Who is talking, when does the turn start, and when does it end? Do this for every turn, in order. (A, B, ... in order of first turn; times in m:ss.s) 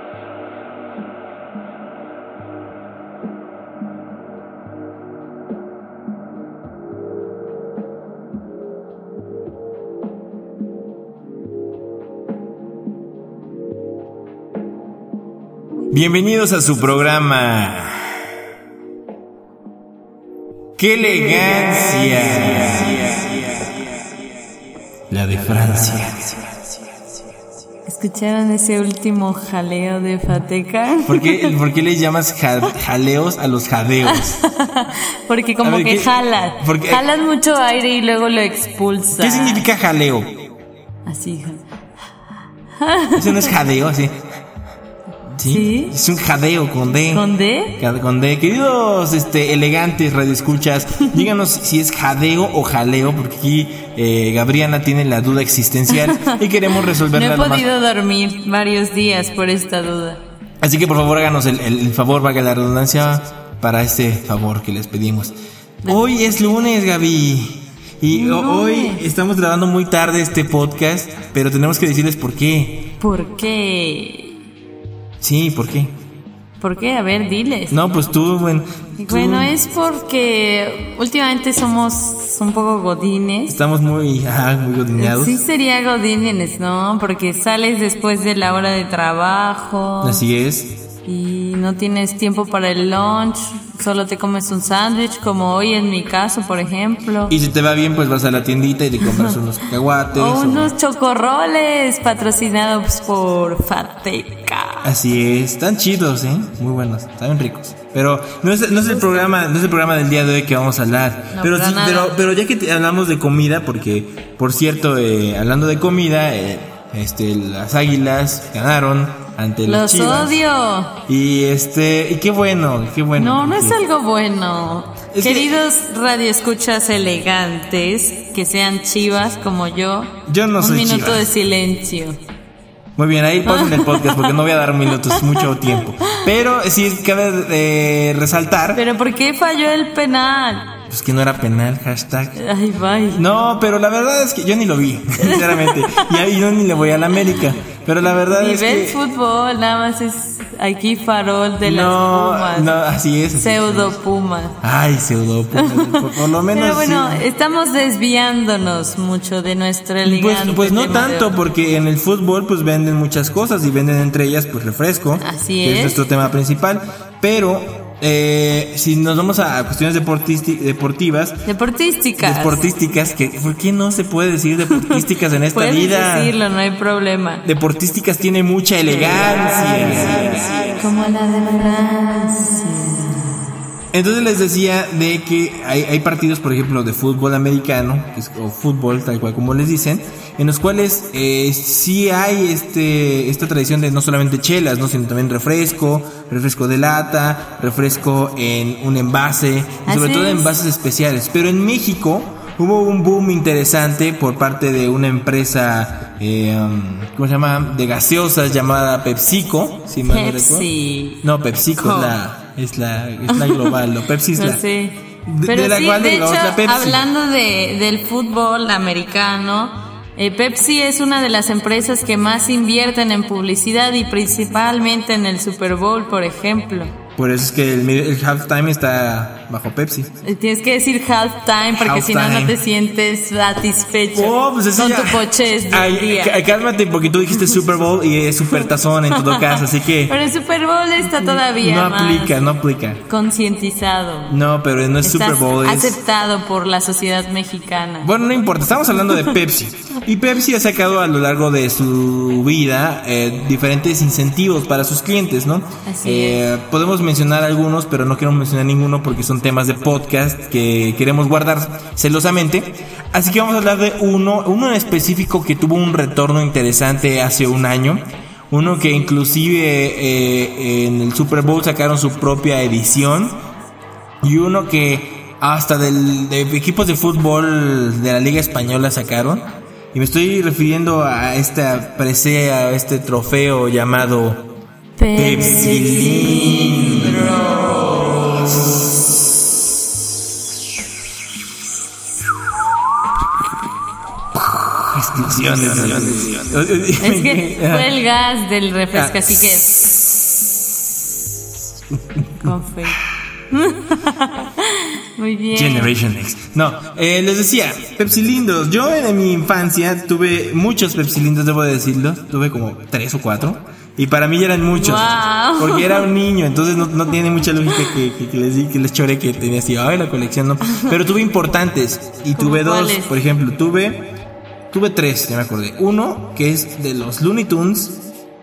0:15.9-0:18.2 A
0:20.8-0:23.3 A
0:22.9-0:23.4 B
0:25.1-0:26.5 A
0:27.9-0:31.6 B
0:31.0-0:34.4 A
0:34.0-0:39.6 B
0:35.6-0:37.0 A
0:39.2-0:40.3 A
0:41.1-0:41.6 B
0:42.8-0:43.6 B
0:43.2-0:44.1 A
0:45.3-0:47.2 A
0:45.5-0:46.0 B
0:47.0-0:47.8 B
0:47.8-0:57.7 A
0:55.9-1:00.2 B
1:00.6-1:05.3 A
1:05.8-1:12.9 A
1:08.1-1:09.0 B
1:13.0-1:14.5 B
1:15.2-1:15.9 A
1:16.6-1:17.8 B
1:17.7-1:19.6 A
1:19.0-1:23.6 B
1:23.5-1:25.4 A
1:25.0-1:30.2 B
1:30.0-1:30.7 A
1:31.0-1:37.4 B
1:37.3-1:40.7 A
1:39.0-1:39.4 B
1:40.1-1:45.0 B
1:44.8-2:00.5 A
1:48.9-1:49.3 B
1:51.3-1:52.2 B
1:59.6-2:01.0 B
2:01.1-2:03.8 A
2:03.2-2:12.2 B
2:05.1-2:05.6 A
2:10.3-2:11.3 A
2:13.0-2:18.8 A
2:13.4-2:16.3 B
2:18.7-2:20.7 B
2:20.9-2:22.4 A
2:22.4-2:23.2 B
2:23.1-2:29.0 A
2:25.2-2:26.2 B
2:28.2-2:32.8 B
2:31.6-2:34.0 A
2:33.4-2:34.6 B
2:34.6-2:37.3 A
2:35.6-2:41.4 B
2:40.0-2:51.4 A
2:45.2-2:46.1 B
2:51.5-2:52.7 B
2:52.2-2:56.4 A
2:54.7-2:55.0 B
2:55.5-2:57.5 B
2:57.4-3:00.8 A
2:59.1-3:00.0 B
3:00.7-3:03.5 B
3:03.9-3:30.7 A
3:19.8-3:20.5 B
3:30.0-3:31.2 B
3:31.2-3:34.6 A
3:31.8-3:32.2 B
3:33.3-3:33.8 B
3:34.4-3:46.9 B
3:35.3-3:37.0 A
3:47.2-3:50.1 A
3:50.2-3:56.4 B
3:51.7-3:52.6 A
3:54.1-4:00.2 A
3:58.6-4:02.4 B
4:01.0-4:03.0 A
4:03.1-4:04.4 B
4:04.3-4:06.0 A
4:05.0-4:08.1 B
4:08.0-4:33.4 A
4:09.0-4:09.4 B
4:15.9-4:16.4 B
4:34.2-4:44.4 A
4:45.0-4:48.2 B
4:45.2-4:48.3 A
4:54.4-4:58.0 A
4:57.0-4:59.8 B
4:58.9-4:59.6 A
5:02.4-5:05.9 B
5:02.4-5:03.1 A
5:05.5-5:24.0 A
5:14.8-5:16.1 B
5:17.7-5:18.0 B
5:20.7-5:21.0 B
5:22.4-5:23.2 B
5:24.7-5:28.0 A